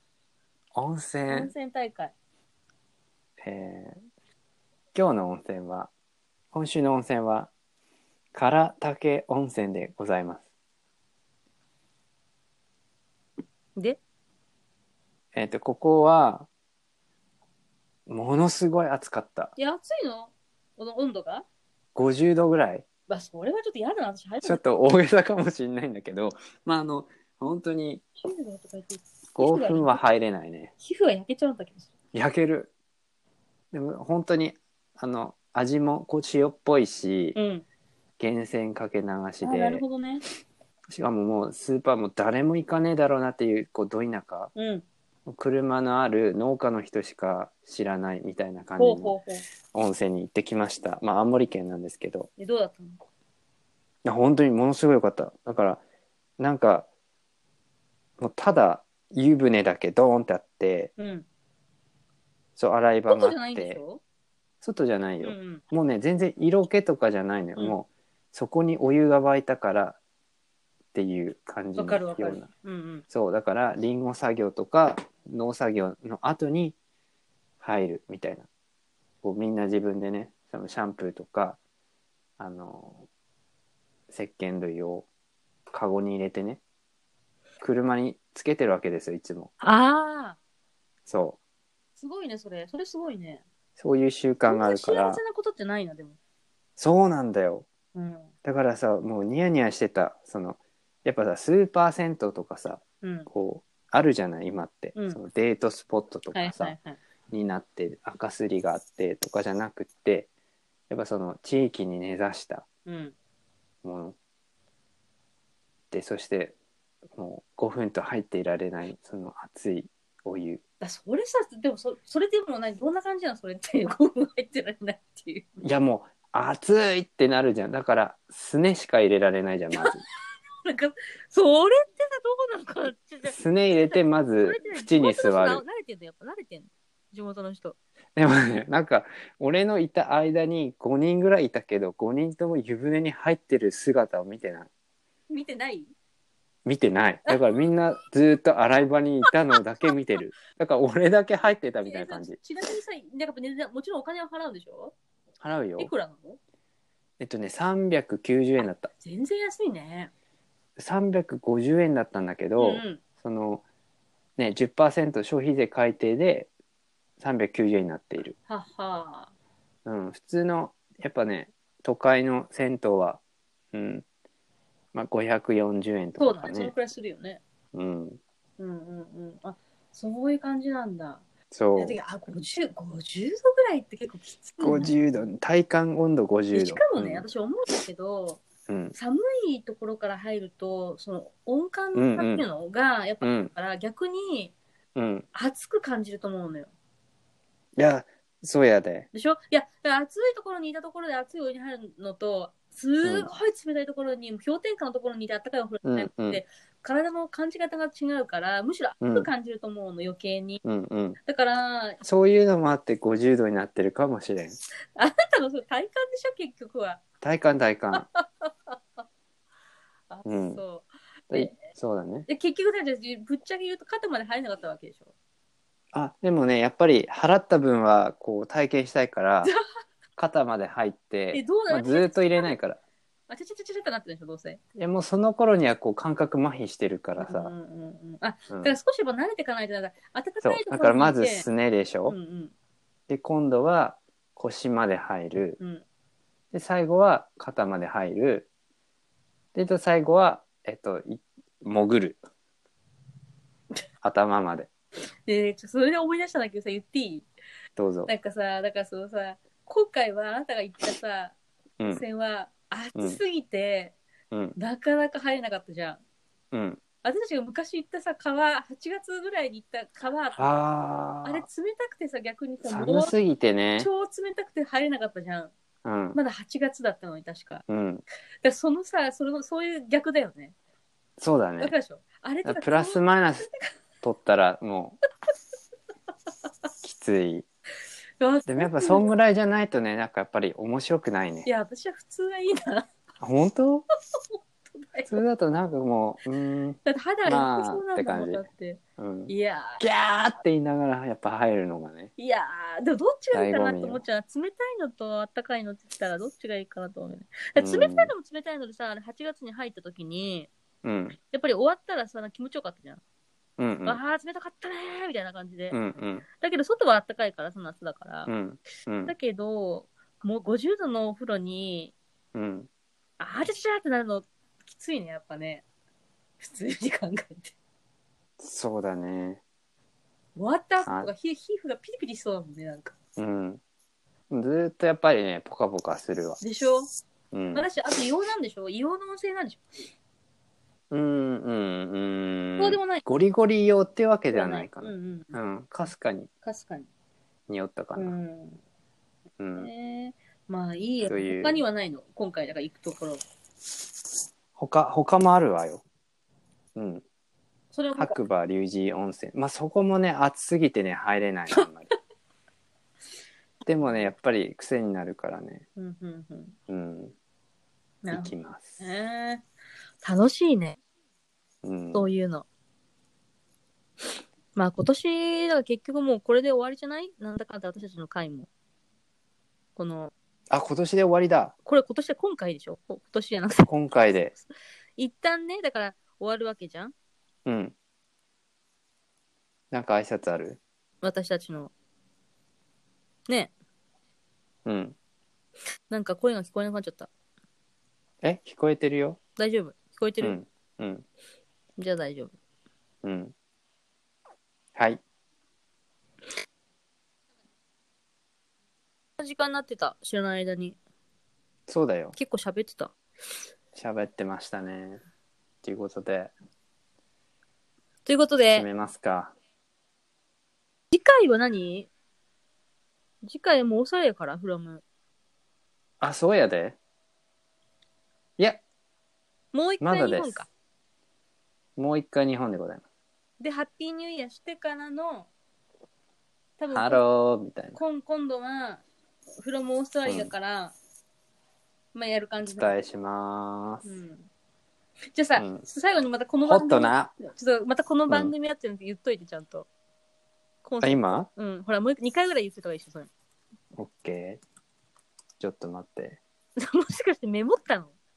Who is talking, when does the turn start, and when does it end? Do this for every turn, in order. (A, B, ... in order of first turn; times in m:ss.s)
0:00.7-0:01.5 A
0:01.3-0:02.1 B
0:03.4-0:04.0 A
0:04.9-0:05.9 A
0:06.5-0:07.5 A
0:08.3-0:10.4 A
0:15.3-0:16.5 A
0:18.1-0:19.5 A
0:19.6-0:21.4 B
0:21.9-0:22.9 A
0:23.1-0:24.6 B
0:24.4-0:28.0 A
0:28.2-0:30.0 B
0:29.3-0:30.7 A
0:30.8-0:31.9 B
0:32.1-0:32.7 A
0:33.7-0:37.4 A
0:37.3-0:37.6 B
0:38.2-0:39.8 A
0:39.4-0:40.2 B
0:40.9-0:44.5 A
0:44.5-0:44.8 B
0:45.3-0:49.1 A
0:48.8-0:49.4 B
0:49.7-0:52.3 A
0:52.4-0:53.0 B
0:54.0-0:55.8 A
0:56.4-0:56.9 A
0:58.2-1:00.9 A
1:01.0-1:01.2 B
1:02.6-1:03.8 A
1:03.1-1:04.0 B
1:04.6-1:10.0 A
1:05.2-1:05.6 B
1:10.9-1:12.5 A
1:11.8-1:13.0 B
1:13.1-1:16.8 A
1:17.6-1:18.5 A
1:19.2-1:21.6 A
1:22.4-1:23.0 A
1:24.1-1:25.0 A
1:25.7-1:26.6 A
1:27.6-1:29.5 A
1:29.6-1:30.4 B
1:31.1-1:31.4 A
1:32.0-1:33.4 B
1:33.8-1:35.2 A
1:34.5-1:36.2 B
1:36.8-1:37.7 A
1:37.9-1:38.3 B
1:38.4-1:46.8 A
1:43.0-1:43.3 B
1:44.9-1:45.2 B
1:46.3-1:47.0 B
1:47.3-1:50.3 A
1:50.9-1:52.6 A
1:52.9-1:53.1 B
1:53.8-1:54.2 A
1:55.9-1:56.5 A
1:57.1-2:00.6 A
2:00.8-2:05.5 B
2:05.6-2:10.0 A
2:09.7-2:17.8 B
2:13.3-2:15.6 A
2:18.2-2:24.7 A
2:25.3-2:25.9 B
2:26.6-2:32.4 A
2:27.3-2:27.6 B
2:29.2-2:29.9 B
2:31.8-2:34.9 B
2:35.4-2:35.9 A
2:35.8-2:36.4 B
2:37.2-2:38.9 A
2:38.6-2:40.1 B
2:40.8-2:43.6 A
2:42.6-2:43.0 B
2:44.4-2:46.5 A
2:47.2-2:48.3 A
2:48.5-2:49.3 B
2:49.9-2:53.2 A
2:53.7-2:54.0 A
2:54.9-2:56.7 A
2:56.2-2:57.4 B
2:57.7-2:58.2 A
2:58.6-3:01.2 B
3:01.5-3:02.0 A
3:01.8-3:05.0 B
3:04.6-3:07.3 A
3:06.5-3:08.4 B
3:08.7-3:08.9 A
3:08.9-3:14.5 B
3:11.9-3:12.4 A
3:13.2-3:13.5 A
3:15.0-3:15.3 A
3:15.3-3:16.7 B
3:17.8-3:19.1 A
3:19.1-3:30.6 B
3:23.0-3:23.3 A
3:25.8-3:26.4 A
3:29.0-3:29.3 A
3:30.6-3:31.2 A
3:31.2-3:32.0 B
3:32.0-3:34.5 A
3:35.0-3:37.0 B
3:37.2-3:38.1 A
3:37.9-3:39.0 B
3:40.1-3:41.6 B
3:40.2-3:40.6 A
3:41.3-3:42.3 A
3:42.3-3:45.1 B
3:45.9-3:49.5 A
3:50.2-3:52.8 A
3:51.3-3:52.5 B
3:53.3-3:54.6 B
3:54.8-3:57.5 A
3:57.2-4:01.4 B
4:00.4-4:02.2 A
4:02.0-4:02.5 B
4:03.1-4:05.6 A
4:05.6-4:05.8 B
4:06.5-4:08.5 A
4:09.5-4:12.2 A
4:14.0-4:14.7 A
4:15.2-4:17.3 B
4:17.8-4:18.1 A
4:18.1-4:21.4 B
4:21.9-4:24.0 B
4:24.3-4:24.6 A
4:24.6-4:26.0 B
4:26.5-4:26.8 A
4:27.0-4:30.5 B
4:30.4-4:31.4 A
4:31.2-4:33.1 B
4:32.6-4:33.9 A
4:33.8-4:35.5 B
4:35.8-4:36.2 A
4:36.1-4:37.6 B
4:37.7-4:38.0 A
4:38.4-4:40.5 B
4:41.2-4:41.7 A
4:41.6-4:43.7 B
4:42.4-4:43.5 A
4:44.0-4:45.0 A
4:46.8-4:47.4 A
4:48.2-4:49.1 B
4:48.5-4:51.5 A
4:51.4-4:52.9 B
4:53.2-4:53.9 A
4:54.7-4:55.2 B
4:55.1-5:02.1 A
4:56.9-4:59.8 B
5:02.2-5:10.5 B
5:03.3-5:04.0 A
5:07.6-5:08.1 A
5:10.8-5:11.2 A
5:11.3-5:13.0 B
5:13.6-5:14.0 A
5:13.8-5:15.8 B
5:15.7-5:16.2 A
5:16.4-5:18.3 B
5:18.3-5:19.1 A
5:19.0-5:21.9 B
5:22.3-5:22.7 A
5:23.2-5:25.6 B
5:26.4-5:27.5 B
5:28.4-5:29.4 A
5:30.4-5:32.9 B
5:30.9-5:31.1 A
5:33.2-5:33.6 A
5:34.3-5:36.4 A
5:36.4-5:36.9 B
5:37.3-5:37.7 A
5:37.5-5:39.6 B
5:40.9-5:46.3 A
5:42.6-5:43.0 B
5:44.3-5:45.4 B
5:46.4-5:46.9 B
5:47.5-5:48.1 A
5:48.0-5:48.6 B
5:49.4-5:49.7 A
5:49.5-5:53.2 B
5:51.1-5:51.6 A
5:54.6-5:55.8 A
5:56.8-5:57.0 A
5:57.7-5:58.2 B
5:58.0-6:01.9 A
6:03.6-6:05.6 A
6:05.8-6:06.6 B
6:06.7-6:07.1 A
6:08.0-6:09.4 B
6:08.1-6:08.7 A
6:10.0-6:10.8 B
6:11.6-6:12.1 A
6:11.9-6:12.4 B
6:14.5-6:18.5 B
6:19.8-6:20.1 B
6:20.5-6:21.5 A
6:21.6-6:23.7 B
6:23.6-6:24.3 A
6:25.0-6:26.9 B
6:27.4-6:27.7 A
6:29.7-6:30.6 A
6:31.0-6:31.7 B
6:34.6-6:34.9 A
6:35.9-6:37.1 B
6:38.2-6:39.2 A
6:39.4-6:40.4 B
6:40.2-6:41.0 A
6:41.8-6:42.3 B
6:43.0-6:43.3 A
6:44.7-6:45.0 A
6:49.2-6:50.8 B
6:51.7-6:52.2 A
6:52.2-6:52.9 B
6:53.7-6:55.0 A
6:55.6-6:56.3 A
6:58.0-6:58.6 B
6:58.5-6:59.3 A
7:00.9-7:01.9 B
7:03.2-7:04.8 B
7:06.0-7:06.8 A
7:09.5-7:10.5 B
7:09.8-7:10.4 A
7:11.8-7:12.8 A
7:13.4-7:15.3 B
7:16.6-7:17.0 B
7:16.7-7:17.8 A
7:17.7-7:18.8 B
7:19.4-7:20.7 B
7:20.1-7:20.3 A
7:21.9-7:22.7 B
7:22.4-7:23.8 A
7:23.8-7:24.3 B
7:25.1-7:29.7 B
7:25.4-7:25.6 A
7:26.4-7:27.1 A
7:30.6-7:33.1 B
7:30.8-7:31.3 A
7:33.7-7:34.4 A
7:35.4-7:36.2 A
7:36.6-7:37.9 B